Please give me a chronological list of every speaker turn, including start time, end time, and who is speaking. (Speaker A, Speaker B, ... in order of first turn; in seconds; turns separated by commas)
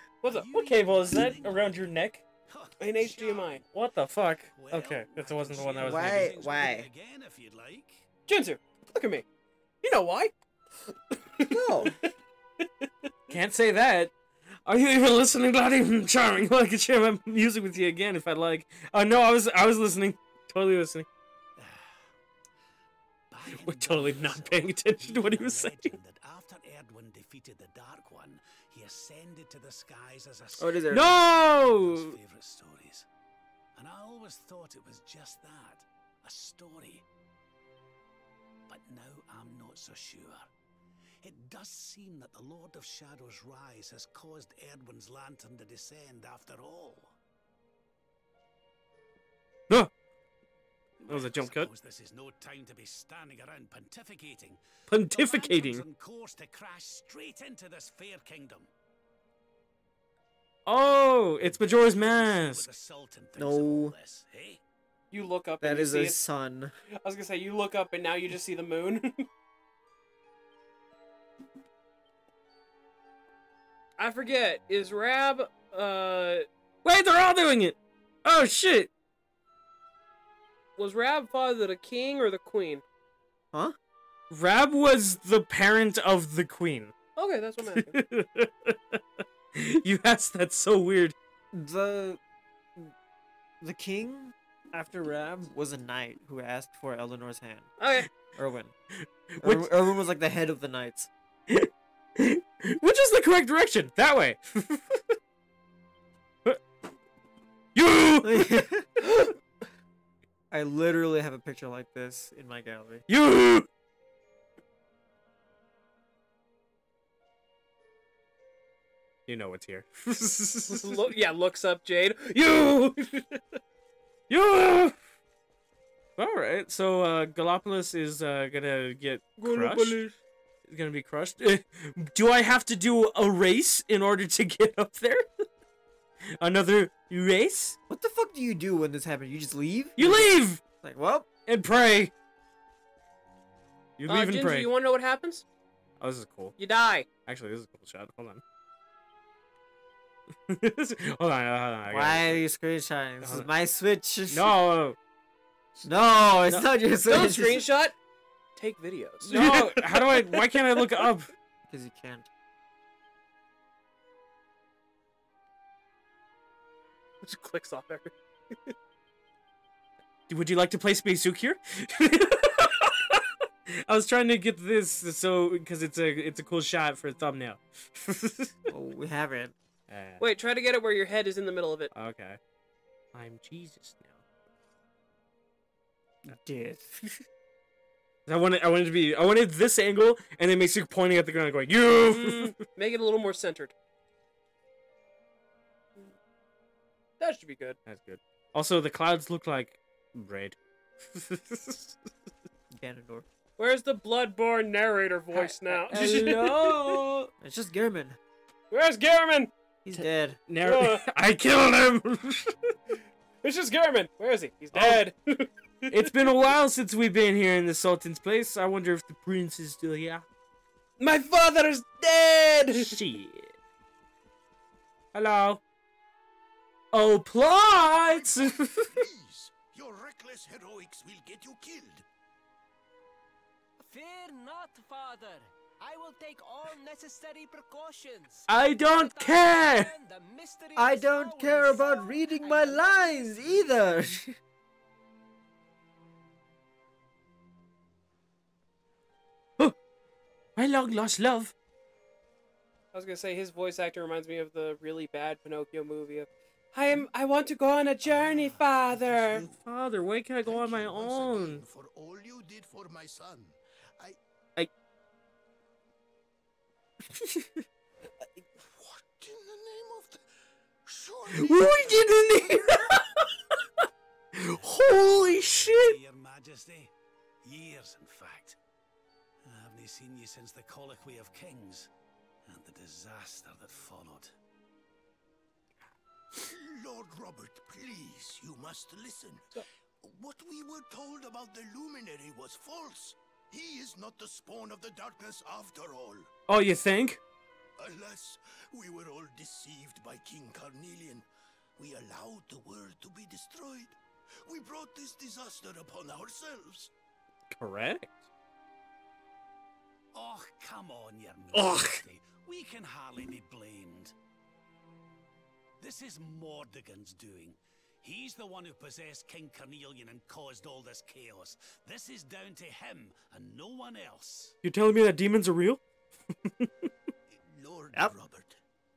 Speaker A: 0.2-0.5, Speaker B: 0.3-1.9, Speaker C: 0.5-2.2, Speaker B: 2.5-3.7, Speaker A: 2.8-3.6, Speaker C: 3.7-6.3, Speaker B: 4.6-8.1, Speaker D: 5.8-6.9, Speaker A: 8.3-9.2, Speaker A: 9.8-10.3, Speaker D: 11.5-11.9, Speaker A: 12.6-13.1, Speaker C: 13.3-14.1, Speaker C: 14.7-21.1, Speaker B: 21.6-22.1, Speaker B: 23.3-33.1, Speaker C: 23.6-25.9, Speaker D: 30.6-31.2, Speaker C: 30.9-32.2, Speaker B: 33.8-37.0, Speaker B: 38.7-40.5, Speaker B: 41.2-47.1, Speaker B: 51.0-58.7, Speaker C: 51.1-51.7, Speaker C: 54.9-55.9, Speaker C: 60.7-62.7, Speaker B: 61.4-64.6, Speaker D: 63.4-64.0, Speaker A: 65.1-66.2, Speaker D: 65.6-66.7, Speaker A: 67.0-69.2, Speaker A: 74.0-76.5, Speaker C: 76.8-78.9, Speaker A: 80.8-82.8, Speaker C: 84.3-86.9, Speaker A: 87.2-88.0, Speaker C: 87.9-91.2, Speaker D: 91.5-92.2, Speaker D: 93.6-97.8, Speaker A: 97.8-98.1, Speaker D: 98.3-98.7, Speaker C: 98.9-99.7, Speaker D: 99.4-101.1, Speaker C: 101.5-105.2, Speaker C: 107.8-108.6, Speaker D: 108.2-109.0, Speaker D: 110.5-113.0, Speaker C: 113.1-113.7, Speaker C: 119.3-121.0, Speaker A: 120.7-123.4, Speaker C: 124.3-125.0, Speaker C: 126.2-130.0, Speaker A: 129.4-130.2, Speaker C: 130.7-135.4, Speaker C: 136.4-137.8, Speaker D: 137.9-141.3, Speaker C: 140.0-140.6, Speaker C: 141.5-142.1, Speaker C: 144.0-144.7, Speaker A: 144.1-145.4, Speaker C: 146.0-146.6, Speaker A: 146.6-147.1, Speaker C: 147.3-148.4, Speaker C: 150.5-152.4, Speaker D: 151.9-154.6, Speaker C: 153.2-153.5, Speaker C: 154.3-155.0, Speaker D: 155.8-157.7, Speaker A: 157.1-158.0, Speaker A: 158.6-161.0, Speaker C: 159.2-161.3, Speaker D: 161.7-162.3, Speaker A: 167.2-168.7, Speaker C: 170.3-178.7, Speaker D: 178.7-179.6, Speaker C: 179.9-180.2, Speaker A: 180.2-181.9, Speaker C: 181.9-182.4, Speaker C: 183.1-184.2, Speaker D: 186.3-187.1, Speaker C: 188.3-192.6, Speaker A: 192.1-193.7, Speaker A: 197.2-197.8, Speaker C: 197.9-202.0, Speaker D: 202.7-203.3, Speaker A: 203.6-206.6, Speaker C: 205.3-207.3, Speaker D: 205.4-208.2, Speaker A: 208.7-209.5, Speaker D: 209.8-210.4, Speaker C: 210.5-212.7, Speaker A: 210.6-211.0, Speaker A: 213.4-216.3, Speaker C: 214.8-215.0, Speaker C: 215.9-220.2, Speaker A: 221.0-223.0, Speaker C: 222.8-223.5, Speaker C: 225.1-225.6, Speaker C: 226.9-228.9, Speaker E: 227.9-232.1, Speaker F: 233.8-243.8, Speaker C: 238.5-239.9, Speaker D: 240.8-244.4, Speaker C: 250.6-251.5, Speaker A: 252.9-259.4, Speaker B: 258.1-258.5, Speaker E: 259.2-259.6, Speaker C: 259.6-261.6, Speaker E: 260.4-264.2, Speaker E: 268.4-270.2, Speaker E: 270.9-273.0, Speaker C: 271.3-276.0, Speaker B: 274.7-276.9, Speaker B: 277.4-278.6, Speaker B: 279.4-281.9, Speaker B: 282.5-284.3, Speaker E: 286.3-296.3, Speaker C: 296.5-297.2, Speaker E: 297.8-301.2, Speaker E: 301.8-306.9, Speaker C: 307.5-308.3, Speaker B: 310.1-314.1, Speaker C: 311.5-312.0, Speaker B: 315.8-324.6, Speaker C: 324.6-325.8, Speaker C: 326.3-326.7, Speaker E: 327.3-328.6